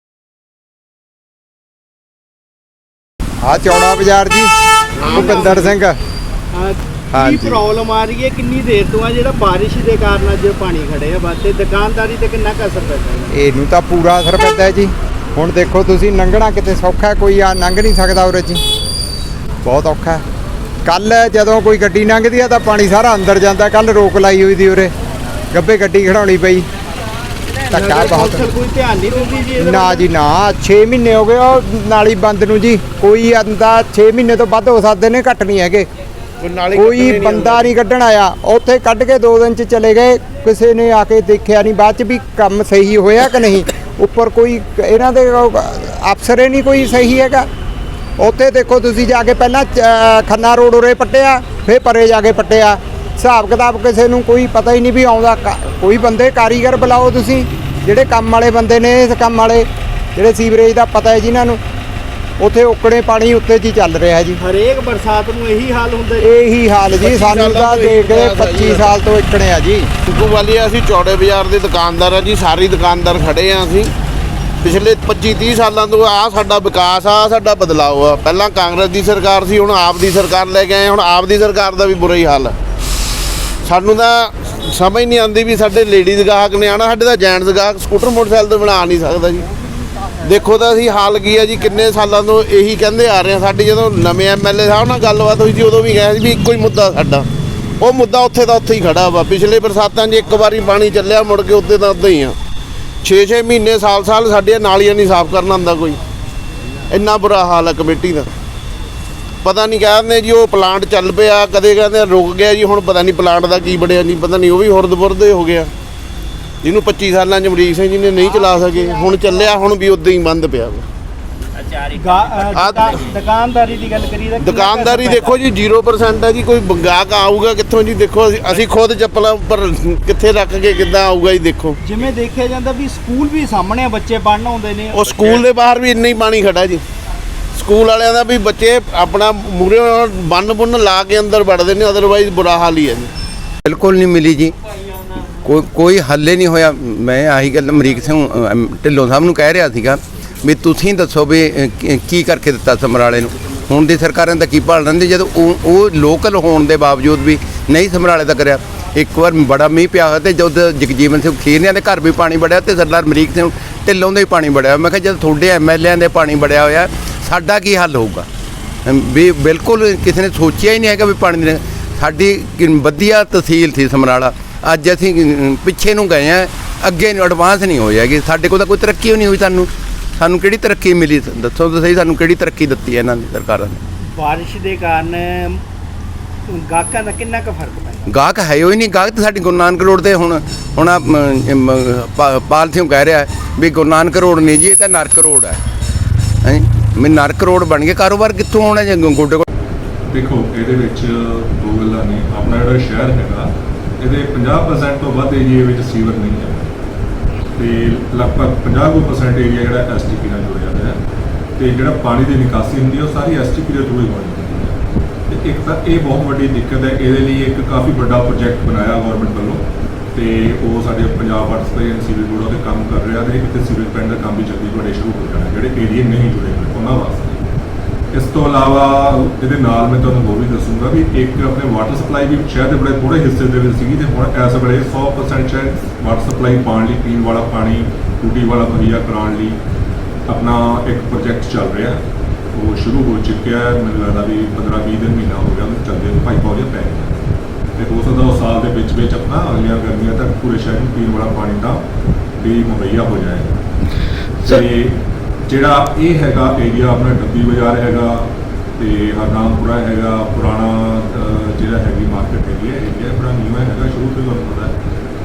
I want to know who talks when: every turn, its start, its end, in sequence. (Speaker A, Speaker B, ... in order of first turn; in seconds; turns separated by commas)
Speaker A: 3.4-6.0, Speaker B: 5.0-5.8, Speaker C: 5.1-5.6, Speaker C: 6.5-13.3, Speaker A: 7.1-7.6, Speaker A: 13.3-18.6, Speaker A: 19.6-20.2, Speaker A: 20.9-24.9, Speaker A: 25.5-26.6, Speaker C: 27.7-30.1, Speaker A: 27.7-28.5, Speaker A: 29.6-35.9, Speaker B: 36.4-37.7, Speaker A: 36.7-47.5, Speaker A: 48.2-59.6, Speaker A: 60.2-61.6, Speaker A: 62.4-64.4, Speaker C: 64.4-66.3, Speaker A: 66.2-69.9, Speaker B: 66.9-68.9, Speaker B: 70.1-73.9, Speaker B: 74.6-82.6, Speaker B: 83.6-89.5, Speaker B: 90.2-97.3, Speaker B: 97.8-102.4, Speaker B: 103.0-106.0, Speaker B: 106.9-108.3, Speaker B: 109.4-115.7, Speaker B: 116.6-120.8, Speaker C: 121.9-125.4, Speaker B: 122.5-122.9, Speaker B: 124.4-131.8, Speaker C: 131.8-135.4, Speaker B: 134.9-136.8, Speaker B: 137.6-143.1, Speaker D: 143.7-144.5, Speaker D: 145.4-168.3, Speaker D: 168.8-183.8, Speaker C: 184.2-185.6, Speaker C: 186.5-188.1, Speaker D: 188.1-195.6, Speaker D: 196.4-199.4, Speaker E: 200.1-206.8, Speaker E: 207.6-211.0, Speaker E: 211.6-214.8, Speaker E: 215.3-227.4, Speaker E: 228.1-239.6, Speaker E: 240.3-242.0, Speaker E: 242.6-247.2, Speaker E: 247.8-251.8, Speaker E: 252.4-253.6, Speaker E: 254.4-264.7